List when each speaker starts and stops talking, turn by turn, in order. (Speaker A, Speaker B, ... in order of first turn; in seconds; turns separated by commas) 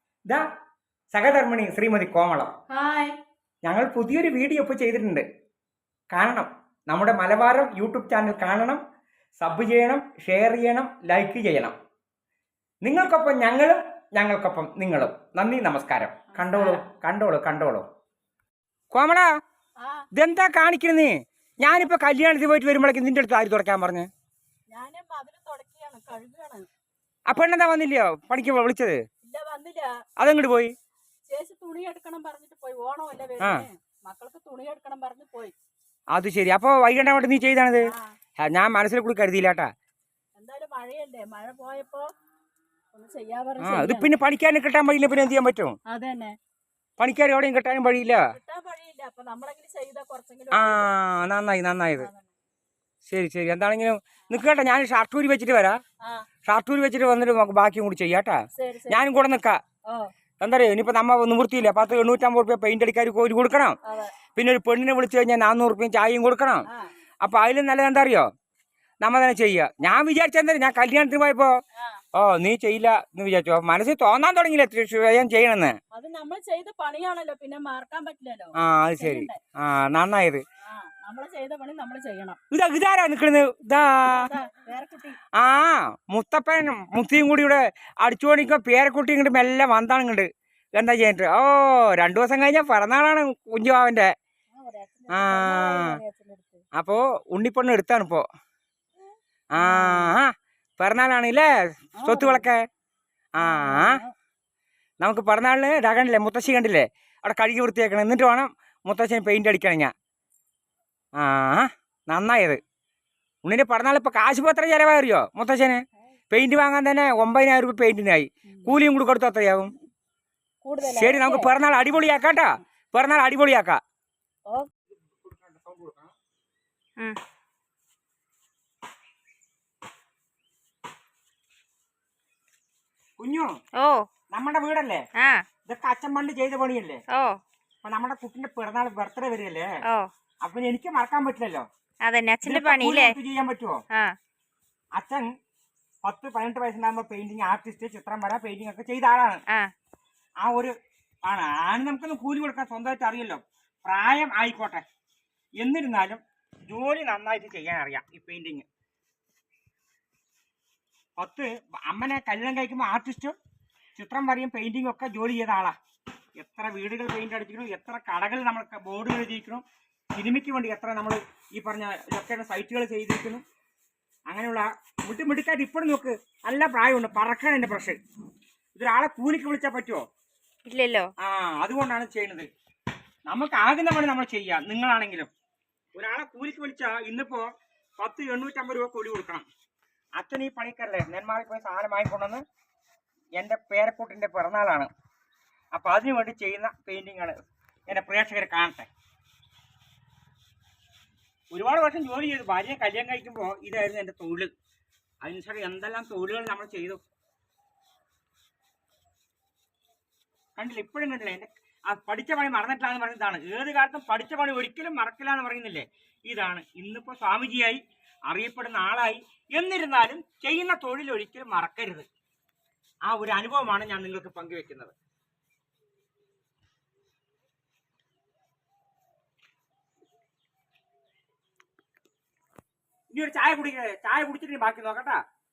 Speaker A: 1.1-2.5, Speaker B: 2.7-3.2, Speaker A: 3.6-5.2, Speaker A: 6.1-8.8, Speaker A: 9.4-11.7, Speaker A: 12.8-17.9, Speaker B: 16.3-16.8, Speaker A: 18.9-19.3, Speaker B: 19.8-20.1, Speaker A: 20.1-24.1, Speaker B: 24.7-26.7, Speaker A: 27.3-29.0, Speaker B: 29.2-29.9, Speaker A: 30.2-30.7, Speaker B: 31.3-35.5, Speaker A: 33.4-33.6, Speaker A: 36.1-39.7, Speaker B: 37.9-38.1, Speaker B: 40.4-42.1, Speaker B: 42.9-44.1, Speaker A: 43.6-45.8, Speaker B: 45.9-46.3, Speaker A: 47.0-48.3, Speaker B: 48.3-50.9, Speaker A: 50.5-52.1, Speaker B: 52.0-52.3, Speaker A: 53.1-55.8, Speaker A: 56.5-58.4, Speaker B: 58.5-59.0, Speaker A: 58.9-59.6, Speaker A: 60.4-63.8, Speaker B: 63.9-64.1, Speaker A: 64.3-66.7, Speaker A: 67.2-68.3, Speaker A: 69.0-71.5, Speaker A: 72.1-75.8, Speaker B: 75.9-79.4, Speaker A: 78.6-80.4, Speaker B: 80.7-82.4, Speaker A: 82.5-84.3, Speaker B: 84.0-85.2, Speaker A: 85.4-94.1, Speaker B: 94.5-96.6, Speaker A: 95.1-96.0, Speaker A: 96.8-98.2, Speaker A: 99.5-101.5, Speaker B: 99.6-100.2, Speaker B: 102.0-102.5, Speaker A: 102.0-102.6, Speaker A: 103.3-104.0, Speaker B: 103.4-104.1, Speaker A: 105.0-109.9, Speaker A: 111.2-112.6, Speaker A: 113.4-119.7, Speaker B: 120.6-121.5, Speaker A: 120.8-123.8, Speaker A: 125.0-126.1, Speaker A: 133.2-133.5, Speaker C: 133.8-134.0, Speaker A: 134.3-135.0, Speaker C: 135.2-135.4, Speaker A: 135.7-137.0, Speaker C: 137.1-137.4, Speaker A: 137.8-139.7, Speaker A: 140.4-141.7, Speaker C: 142.0-143.1, Speaker A: 142.4-143.8, Speaker A: 144.9-145.3, Speaker A: 146.0-149.4, Speaker A: 150.4-150.7, Speaker A: 151.2-154.8, Speaker A: 155.6-158.7, Speaker A: 161.2-163.4, Speaker A: 163.9-165.8, Speaker A: 166.4-169.6, Speaker A: 170.2-173.4, Speaker A: 174.3-178.0, Speaker A: 178.8-180.0, Speaker C: 180.7-181.1, Speaker A: 181.2-182.5, Speaker A: 183.3-185.3, Speaker A: 185.9-189.4, Speaker A: 190.2-192.4, Speaker A: 193.4-194.9, Speaker A: 195.7-197.3, Speaker A: 197.9-198.9, Speaker A: 201.5-204.5, Speaker A: 205.2-207.0, Speaker A: 210.6-222.1, Speaker A: 223.1-224.9, Speaker A: 233.1-235.2